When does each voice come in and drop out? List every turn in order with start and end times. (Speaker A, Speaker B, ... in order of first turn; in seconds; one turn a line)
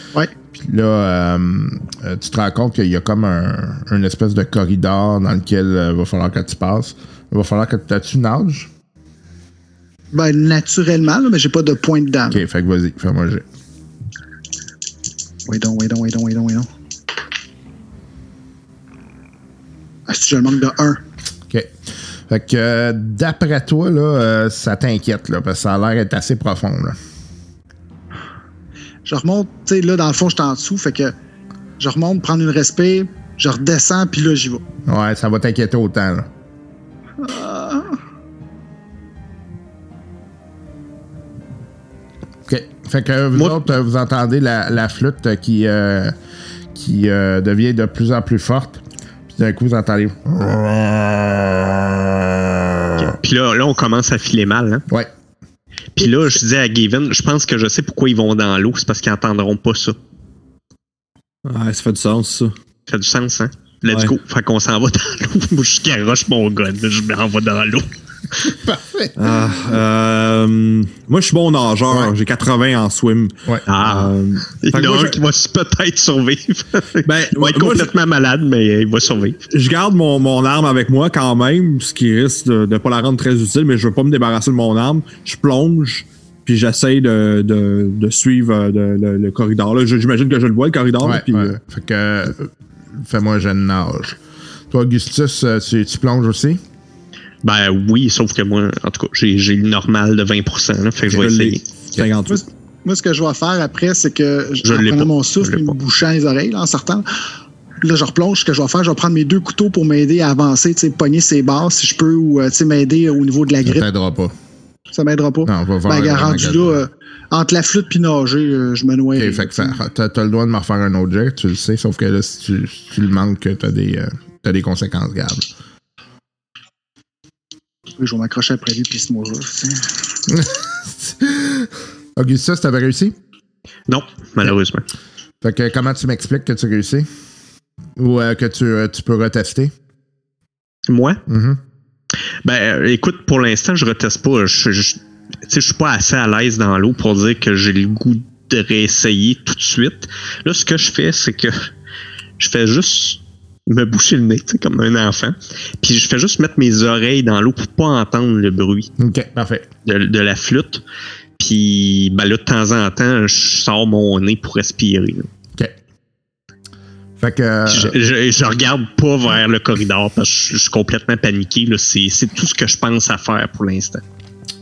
Speaker A: 0.5-8.7
Speaker B: 10.1-12.4
Speaker A: 12.3-13.4
Speaker B: 15.5-16.7
Speaker B: 20.1-21.0
Speaker A: 21.5-21.8
Speaker A: 22.3-27.0
Speaker B: 29.1-31.1
Speaker B: 31.8-34.6
Speaker A: 34.9-36.3
Speaker B: 37.2-38.0
Speaker A: 42.5-46.1
Speaker A: 46.7-53.2
Speaker C: 53.0-54.9
Speaker C: 56.0-60.0
Speaker D: 61.5-62.5
Speaker C: 62.9-67.9
Speaker D: 63.9-64.1
Speaker A: 68.4-69.6
Speaker D: 69.2-75.2
Speaker C: 73.7-79.4
Speaker D: 77.0-77.9
Speaker D: 79.5-91.6
Speaker A: 91.0-94.2
Speaker A: 94.7-96.6
Speaker C: 97.4-101.6
Speaker D: 101.1-102.4
Speaker B: 102.3-107.1
Speaker C: 104.6-105.8
Speaker B: 107.8-113.9
Speaker A: 113.6-114.3
Speaker B: 114.9-119.7
Speaker A: 115.5-116.8
Speaker A: 119.2-125.5
Speaker B: 128.0-129.9
Speaker A: 130.3-133.2
Speaker C: 133.9-134.9
Speaker A: 135.4-137.1
Speaker A: 138.0-139.7
Speaker C: 140.9-141.2
Speaker A: 141.3-141.6
Speaker C: 142.4-151.7
Speaker C: 152.4-158.9
Speaker A: 159.0-159.7
Speaker C: 159.8-160.8
Speaker C: 161.4-165.3
Speaker A: 167.2-168.0
Speaker C: 167.7-174.0